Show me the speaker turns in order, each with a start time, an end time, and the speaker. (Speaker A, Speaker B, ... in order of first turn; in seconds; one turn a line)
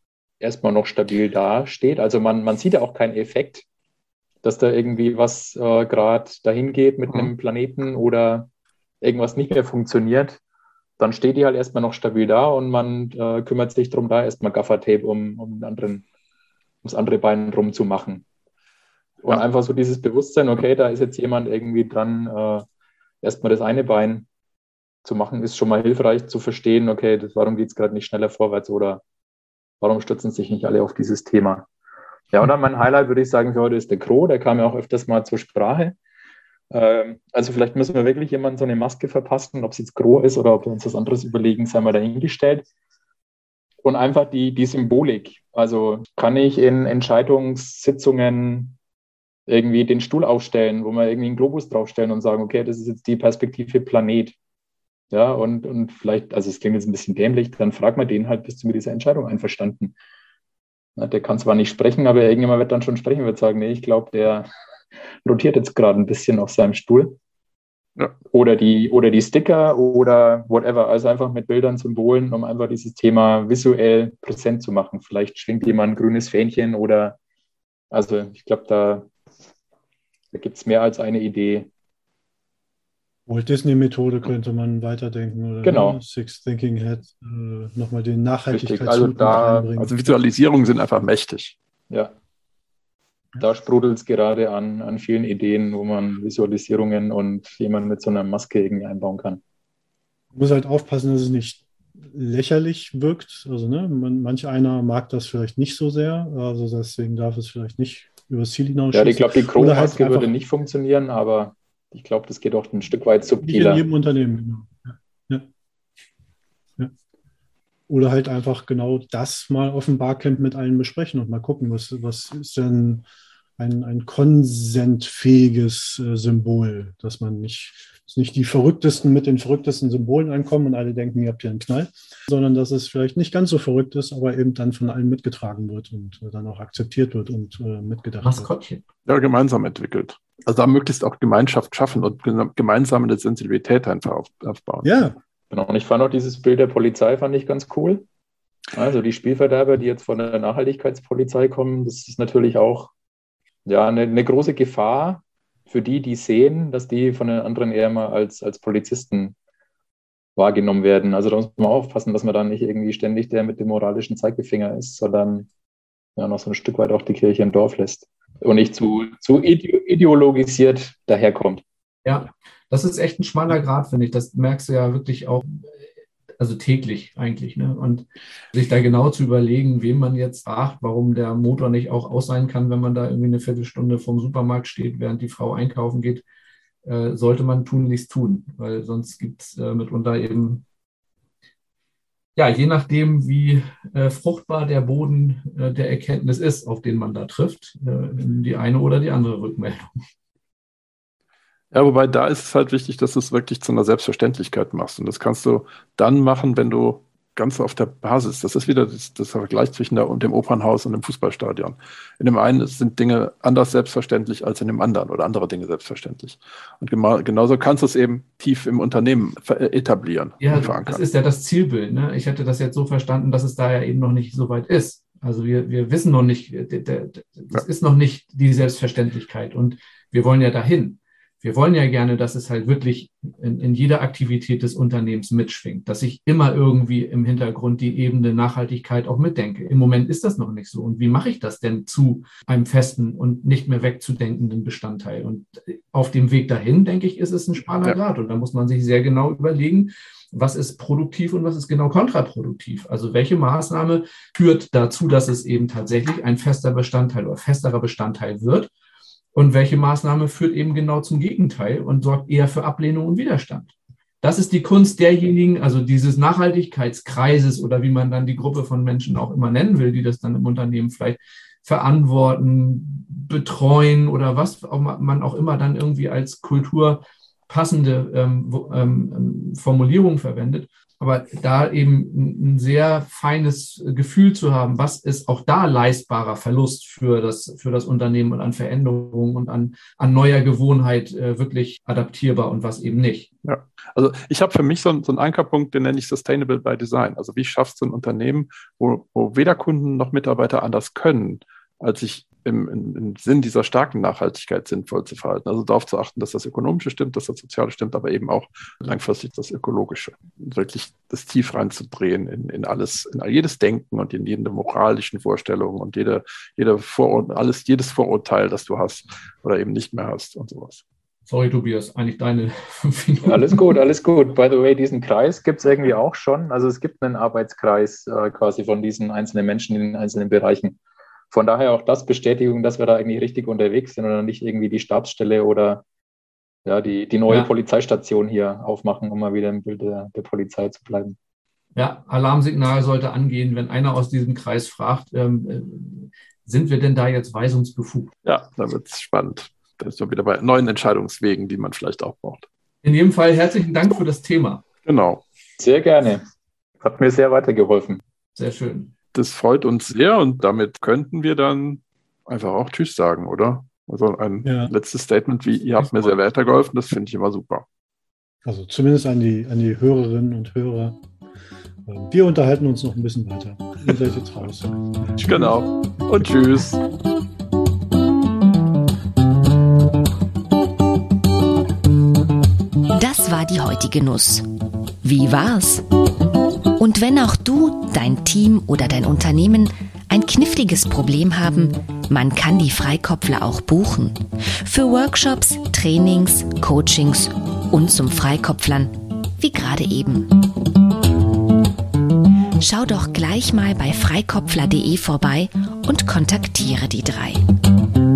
Speaker A: 0.4-3.6
Speaker A: 4.4-8.5
Speaker A: 9.0-10.4
Speaker A: 11.0-16.0
Speaker A: 16.8-18.2
Speaker A: 19.2-22.6
Speaker A: 23.2-24.3
Speaker A: 25.0-29.0
Speaker A: 29.8-31.7
Speaker A: 32.3-36.0
Speaker A: 36.7-42.6
Speaker A: 43.8-48.8
Speaker A: 49.5-54.4
Speaker A: 55.1-59.9
Speaker A: 61.0-64.5
Speaker A: 65.2-67.1
Speaker A: 68.3-77.2
Speaker A: 77.9-79.1
Speaker A: 80.3-81.7
Speaker B: 83.3-90.2
Speaker A: 85.6-86.0
Speaker A: 88.5-89.7
Speaker C: 89.8-91.5
Speaker A: 93.4-99.4
Speaker B: 100.3-110.3
Speaker A: 108.9-113.8
Speaker B: 113.4-115.5
Speaker B: 117.9-123.0
Speaker B: 123.6-138.5
Speaker D: 138.2-138.8
Speaker C: 139.1-144.9
Speaker B: 144.8-145.2
Speaker A: 145.5-148.0
Speaker A: 148.7-152.9
Speaker A: 153.7-159.3
Speaker A: 160.3-165.5
Speaker A: 166.2-171.6
Speaker D: 172.0-175.7
Speaker D: 176.4-186.2
Speaker D: 186.8-190.6
Speaker D: 192.3-199.9
Speaker C: 201.7-221.0
Speaker D: 220.4-258.7
Speaker D: 259.3-293.3
Speaker C: 293.4-320.8
Speaker D: 321.3-323.7
Speaker A: 323.2-330.8
Speaker A: 331.3-335.8
Speaker A: 336.6-341.1
Speaker D: 341.8-348.1
Speaker C: 348.2-352.5
Speaker D: 352.8-354.6
Speaker C: 354.8-355.2
Speaker A: 355.6-356.2
Speaker A: 356.8-358.0
Speaker D: 358.4-358.9
Speaker C: 359.1-367.6
Speaker B: 364.4-364.7
Speaker B: 368.4-371.0
Speaker B: 371.9-375.6
Speaker C: 375.2-376.8
Speaker E: 382.9-384.4
Speaker E: 385.0-385.8
Speaker E: 386.8-400.3
Speaker E: 402.6-407.4